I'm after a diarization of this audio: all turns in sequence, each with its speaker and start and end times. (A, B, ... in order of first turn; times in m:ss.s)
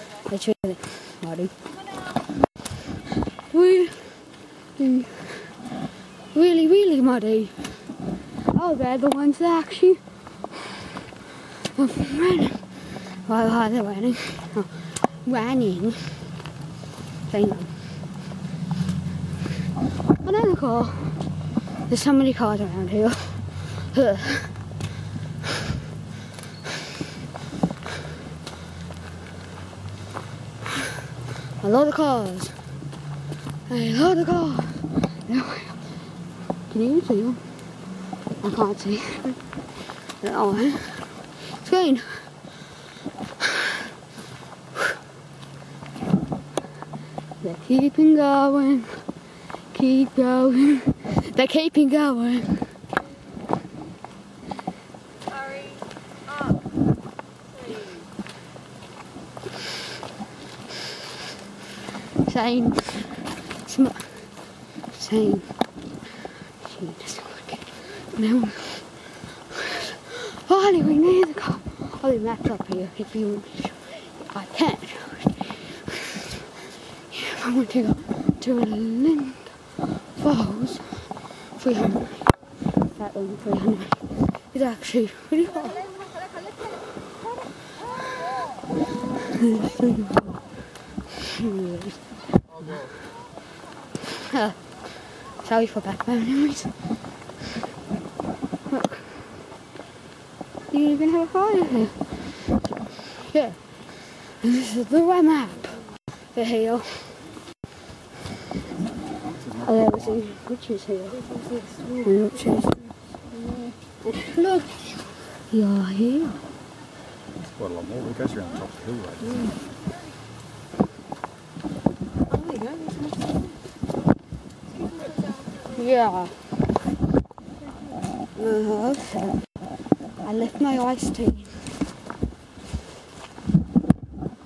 0:00.2-0:01.5 A
0:03.5-0:04.1 A
0:04.8-0:05.5 A
0:06.3-0:07.7 A
0:08.5-0:10.0 A
0:11.7-0:12.6 A
0:13.2-0:16.0 A
0:17.3-0:17.7 A
0:20.2-0:21.2 A
0:21.9-0:24.5 A
0:31.6-0:32.6 A
0:33.7-0:35.8 A
0:36.7-0:37.4 A
0:38.4-0:39.4 A
0:40.2-0:41.1 A
0:41.6-0:42.3 A
0:47.4-0:49.0 A
0:49.7-0:52.6 A
0:55.3-0:56.6 B
0:57.5-0:58.1 B
1:02.2-1:04.2 A
1:04.9-1:05.4 A
1:06.6-1:08.8 A
1:09.5-1:16.3 A
1:16.9-1:19.6 A
1:20.1-1:22.3 A
1:22.9-1:25.9 A
1:25.7-1:26.6 B
1:29.3-1:30.4 A
1:31.2-1:32.0 A
1:34.3-1:34.6 A
1:35.4-1:36.7 A
1:38.7-1:39.1 A
1:40.7-1:42.0 A
1:43.3-1:43.6 A
1:44.4-1:45.8 A
1:46.3-1:47.1 A
1:49.1-1:50.4 C
1:49.6-1:51.2 A
1:51.2-1:53.7 B
1:52.0-1:52.7 A
1:54.2-1:54.7 A
1:55.5-1:56.4 A
1:57.4-1:59.6 C
2:02.3-2:03.5 B
2:04.7-2:05.8 B
2:05.7-2:06.3 A
2:07.6-2:08.0 B
2:08.4-2:09.4 A
2:10.2-2:11.6 A